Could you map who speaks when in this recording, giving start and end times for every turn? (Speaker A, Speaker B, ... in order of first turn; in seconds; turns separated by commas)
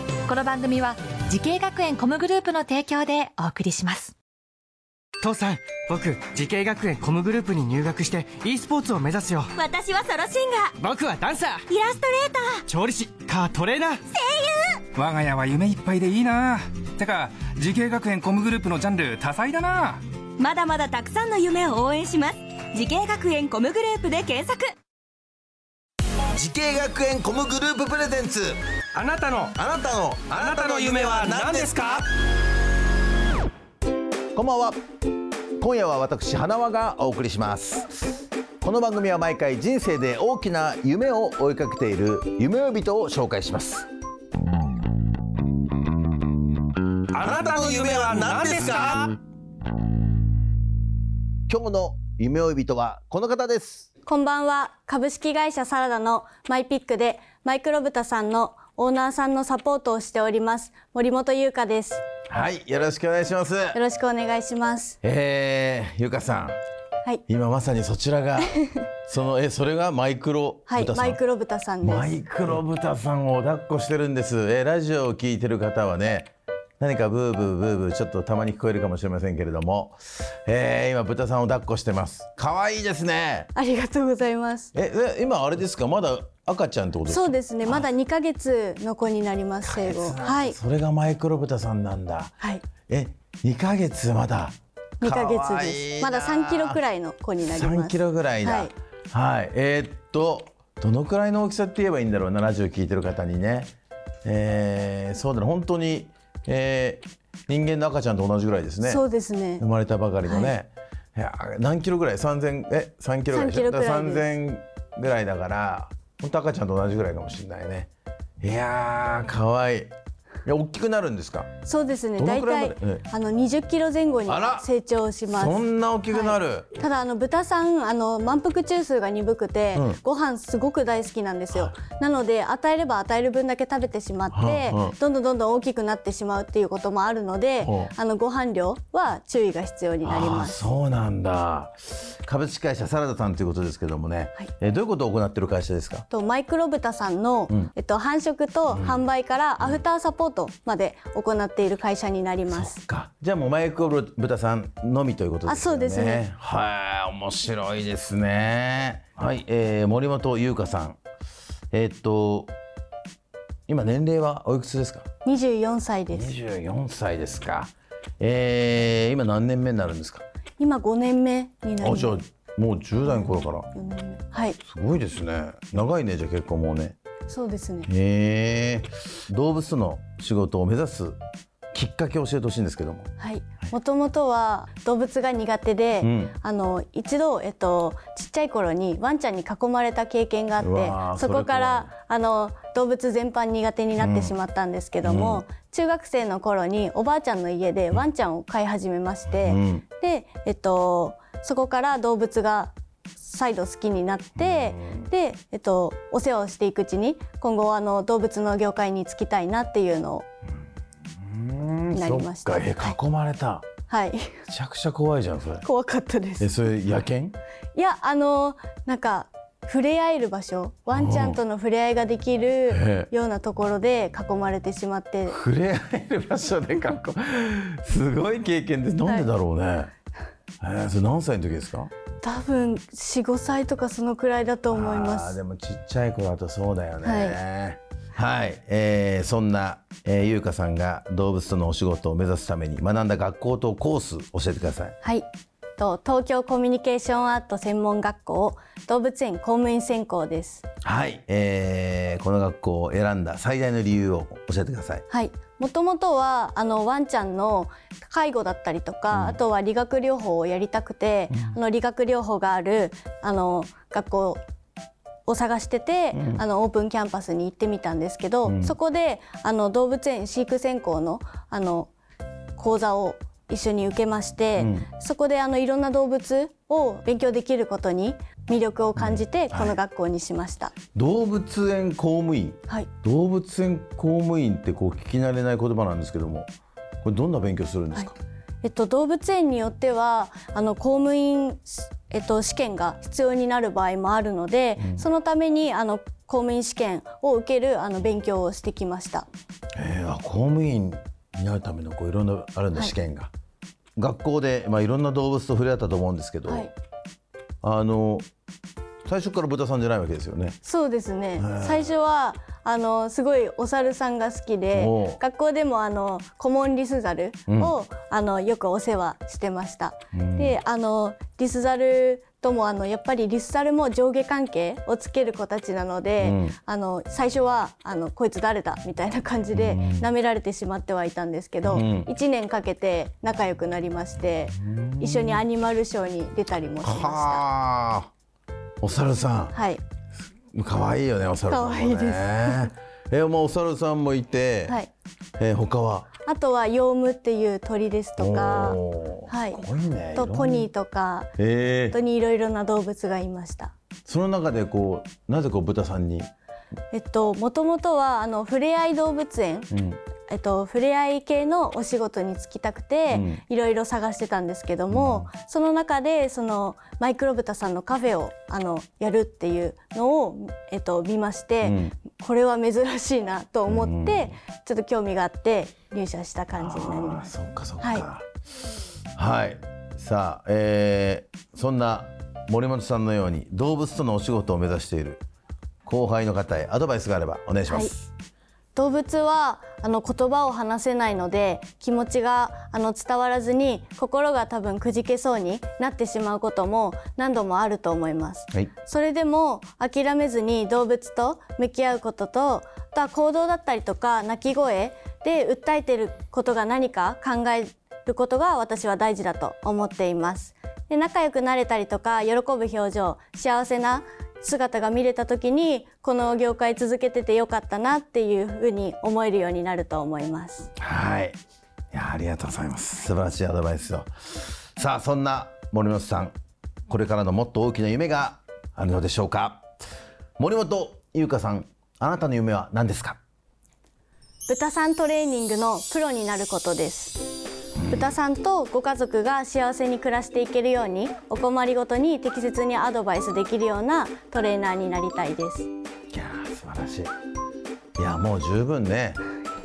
Speaker A: 0.2-4.1, Speaker B: 5.2-9.5, Speaker C: 9.5-10.7, Speaker B: 10.8-11.6, Speaker C: 11.7-12.7, Speaker B: 12.7-14.0, Speaker C: 14.1-14.8, Speaker D: 14.9-20.0, Speaker C: 20.4-24.6, Speaker E: 26.3-28.6, Speaker D: 28.9-29.5, Speaker E: 29.5-32.0, Speaker D: 30.3-32.0, Speaker E: 34.3-34.8, Speaker E: 35.6-38.1, Speaker E: 38.6-43.9, Speaker D: 47.1-49.1, Speaker E: 47.2-49.0, Speaker E: 51.5-53.9, Speaker F: 54.0-62.0, Speaker E: 62.3-63.8, Speaker F: 63.7-65.0, Speaker E: 65.0-66.6, Speaker E: 67.3-71.2, Speaker F: 70.7-72.2, Speaker E: 71.8-83.5, Speaker F: 83.5-84.7, Speaker E: 84.7-87.9, Speaker F: 87.0-90.6, Speaker E: 89.6-92.3, Speaker E: 92.9-96.8, Speaker F: 95.0-98.7, Speaker E: 97.4-103.7, Speaker E: 104.2-109.0, Speaker F: 108.8-109.6, Speaker E: 109.6-117.9, Speaker F: 110.2-110.5, Speaker F: 113.3-114.4, Speaker E: 118.4-119.9, Speaker E: 120.5-121.5, Speaker F: 121.6-140.7, Speaker E: 122.2-123.0, Speaker E: 124.3-124.7, Speaker E: 125.3-126.7, Speaker E: 129.7-130.0, Speaker E: 134.3-134.9, Speaker E: 137.6-137.9, Speaker E: 140.0-146.0, Speaker F: 146.1-152.8, Speaker E: 148.7-149.0, Speaker E: 152.5-161.0, Speaker F: 155.4-156.2, Speaker E: 161.7-162.5, Speaker E: 163.7-165.1, Speaker F: 165.2-166.3, Speaker E: 166.1-170.2, Speaker F: 170.6-172.2, Speaker E: 171.8-173.7, Speaker F: 173.1-174.6, Speaker E: 174.6-177.0, Speaker F: 177.3-177.9, Speaker E: 177.9-181.2, Speaker E: 181.7-183.1, Speaker F: 183.2-210.2, Speaker E: 186.0-186.3, Speaker E: 190.6-191.9, Speaker E: 194.0-194.3, Speaker E: 195.0-195.4, Speaker E: 199.3-199.8, Speaker E: 204.3-205.1, Speaker E: 211.2-213.7, Speaker F: 211.9-213.0, Speaker F: 213.9-214.4, Speaker E: 214.5-215.6, Speaker F: 215.6-216.5, Speaker E: 216.4-217.4, Speaker F: 217.7-225.4, Speaker E: 220.9-221.4, Speaker E: 222.7-223.1, Speaker E: 225.3-229.9, Speaker E: 230.6-231.9, Speaker F: 232.2-235.4, Speaker E: 234.7-244.9, Speaker F: 237.0-237.4, Speaker F: 245.0-250.6, Speaker E: 250.8-255.0, Speaker F: 255.1-264.4, Speaker E: 259.1-259.4, Speaker E: 261.3-261.6, Speaker F: 265.2-271.9, Speaker E: 266.1-266.4, Speaker E: 268.4-268.7, Speaker F: 272.6-280.7, Speaker E: 274.6-274.9, Speaker E: 279.0-279.8, Speaker E: 280.9-286.4, Speaker E: 287.0-288.1, Speaker F: 288.6-299.3, Speaker E: 294.8-295.1, Speaker E: 299.7-303.3, Speaker E: 304.0-306.7, Speaker F: 306.5-306.7, Speaker E: 307.6-308.2, Speaker E: 309.0-310.6, Speaker F: 310.6-337.5, Speaker E: 311.4-311.9, Speaker E: 314.7-315.2, Speaker E: 317.5-317.7, Speaker E: 320.1-320.6, Speaker E: 326.2-326.6, Speaker E: 329.5-330.1, Speaker E: 331.6-332.1, Speaker E: 334.6-335.4, Speaker E: 336.8-338.1, Speaker E: 338.8-339.5, Speaker F: 339.5-339.8, Speaker E: 340.5-344.8, Speaker F: 341.5-342.7, Speaker E: 345.4-346.1, Speaker F: 346.2-349.6, Speaker E: 348.2-350.7, Speaker F: 350.1-351.3, Speaker E: 351.4-352.0, Speaker F: 351.9-353.7, Speaker E: 354.1-356.3, Speaker F: 356.9-359.7, Speaker E: 359.7-360.0, Speaker F: 360.3-377.3, Speaker E: 363.1-363.4, Speaker E: 364.9-365.3, Speaker E: 371.6-371.9, Speaker E: 373.7-374.3, Speaker E: 376.5-378.2, Speaker F: 377.8-378.1, Speaker E: 379.2-385.2, Speaker E: 385.9-388.1, Speaker F: 387.7-387.9, Speaker F: 388.7-420.7, Speaker E: 420.8-421.4, Speaker E: 421.9-426.3, Speaker E: 426.9-429.7, Speaker E: 430.4-433.2, Speaker F: 434.5-437.3, Speaker E: 437.8-438.1, Speaker F: 437.9-445.7, Speaker E: 446.1-447.1, Speaker E: 448.0-449.2